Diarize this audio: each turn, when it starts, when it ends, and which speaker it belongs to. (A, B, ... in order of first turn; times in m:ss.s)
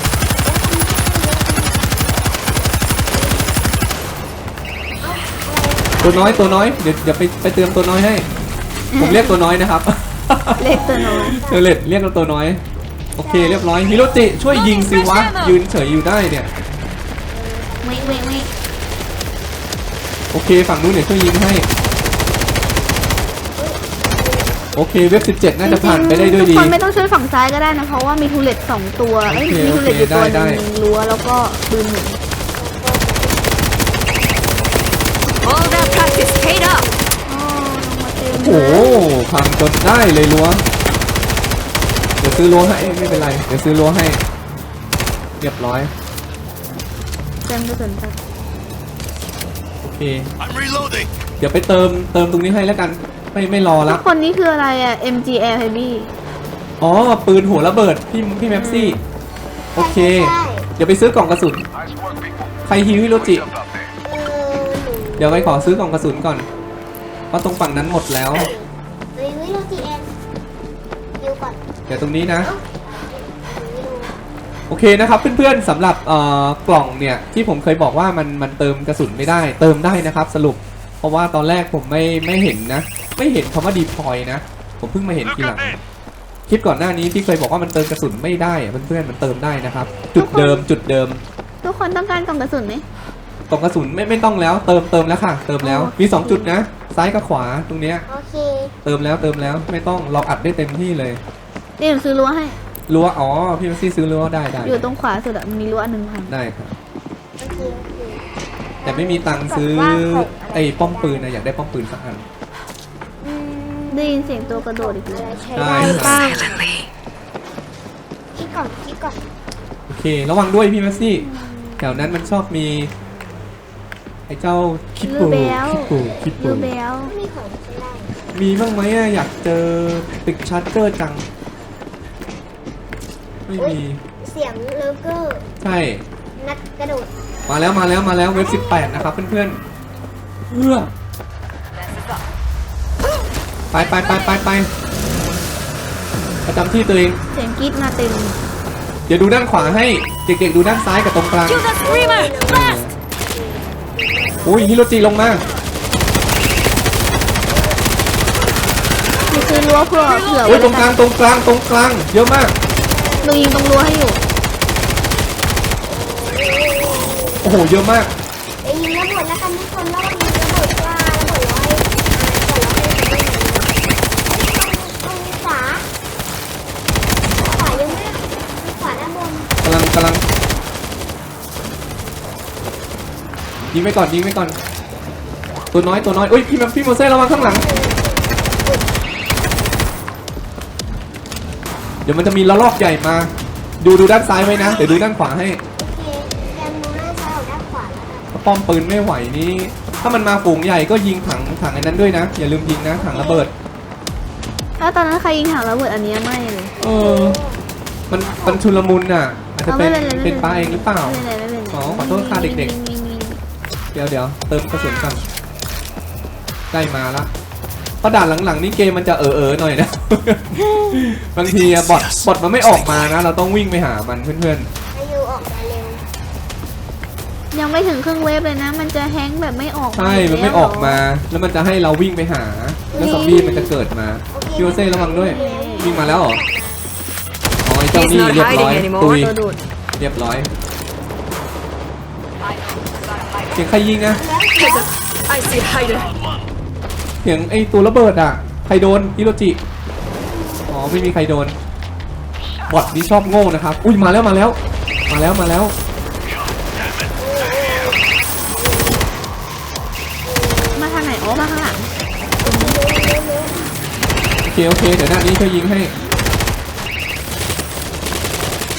0:00.4-0:01.9 A
0:03.1-0:03.5 A
0:05.0-0:06.8 A
0:06.0-0:08.3 B
0:08.9-0:09.4 C
0:09.0-0:12.6 B
0:10.6-0:11.4 C
0:10.6-0:11.6 A
0:13.2-0:16.5 B
0:13.2-0:13.8 A
0:14.5-0:15.6 D
0:17.3-0:18.5 A
0:17.8-0:18.5 C
0:20.3-0:21.7 B
0:23.6-0:25.3 A
0:24.8-0:26.8 B
0:25.6-0:32.2 C
0:29.3-0:30.6 B
0:32.5-0:33.6 A
0:35.4-0:36.9 D
0:35.6-0:37.0 A
0:37.3-0:39.1 C
0:38.3-0:40.6 B
0:42.2-0:43.3 A
0:42.2-0:44.2 B
0:45.4-0:45.9 B
0:47.4-0:48.2 C
0:49.8-0:50.3 B
0:51.4-0:54.0 B
0:53.9-0:56.1 C
0:56.8-0:59.0 B
0:58.5-0:59.0 C
0:59.7-1:00.7 A
0:59.8-1:01.6 B
1:02.6-1:03.5 B
1:04.0-1:05.6 A
1:05.2-1:06.5 B
1:07.3-1:08.5 B
1:08.4-1:10.1 A
1:11.2-1:11.6 A
1:11.9-1:12.5 B
1:12.4-1:14.2 A
1:14.7-1:25.8 B
1:26.5-1:31.2 B
1:30.2-1:30.7 C
1:31.6-1:32.8 C
1:33.5-1:38.1 B
1:35.6-1:36.5 C
1:38.1-1:38.7 A
1:38.8-1:41.2 B
1:41.8-1:42.6 C
1:42.9-1:44.9 B
1:44.6-1:46.3 C
1:46.3-1:46.7 B
1:47.4-1:48.2 A
1:48.8-1:51.3 A
1:48.8-1:52.3 B
1:53.2-1:56.5 A
1:53.9-1:56.5 C
1:55.5-1:56.3 B
1:55.9-1:56.9 D
1:58.3-1:59.2 A
1:59.9-2:01.2 B
2:01.0-2:02.1 A
2:01.8-2:02.9 B
2:04.3-2:06.7 B
2:05.0-2:07.1 C
2:07.0-2:08.2 A
2:08.3-2:11.2 B
2:13.5-2:14.0 B
2:13.6-2:15.5 A
2:15.6-2:16.0 B
2:16.4-2:17.1 A
2:17.5-2:19.6 B
2:18.3-2:19.1 A
2:20.5-2:20.9 B
2:23.7-2:24.7 B
2:24.0-2:24.4 A
2:26.5-2:27.2 B
2:27.3-2:28.4 C
2:29.1-2:31.7 B
2:29.5-2:29.9 A
2:31.5-2:32.3 D
2:31.8-2:34.8 A
2:32.4-2:32.9 B
2:34.4-2:35.4 B
2:37.4-2:39.9 A
2:39.3-2:41.0 C
2:40.4-2:42.6 B
2:42.8-2:43.7 A
2:43.2-2:44.2 C
2:45.8-2:47.6 A
2:47.4-2:48.1 B
2:48.6-2:53.7 A
2:54.3-2:55.9 A
2:57.4-2:59.5 A
2:59.6-3:00.2 B
3:03.7-3:04.6 B
3:05.7-3:07.6 B
3:07.3-3:08.8 A
3:12.0-3:15.6 B
3:15.8-3:18.3 A
3:18.3-3:23.5 B
3:23.0-3:23.5 A
3:24.8-3:26.8 C
3:26.8-3:27.4 B
3:26.8-3:27.6 A
3:28.1-3:31.2 B
3:28.2-3:28.7 A
3:29.7-3:33.4 C
3:31.7-3:32.7 B
3:33.9-3:35.2 B
3:34.7-3:35.2 A
3:36.7-3:37.3 B
3:38.0-3:44.7 B
3:40.7-3:41.1 C
3:44.9-3:46.0 A
3:47.5-3:51.0 C
3:50.0-3:56.4 B
3:52.9-3:53.7 A
3:54.3-3:56.8 A
3:55.2-3:56.1 C
3:57.6-3:59.4 B
3:57.9-3:59.4 D
3:59.2-3:59.6 C
4:00.0-4:00.5 B
4:03.5-4:04.2 B
4:04.1-4:04.9 A
4:04.6-4:06.1 D
4:07.2-4:09.6 B
4:10.2-4:11.2 A
4:10.7-4:11.6 B
4:12.7-4:14.6 B
4:15.1-4:15.7 B
4:17.2-4:19.1 A
4:20.2-4:21.4 A
4:20.8-4:21.9 C
4:22.4-4:23.7 A
4:22.4-4:22.8 C
4:24.4-4:25.9 B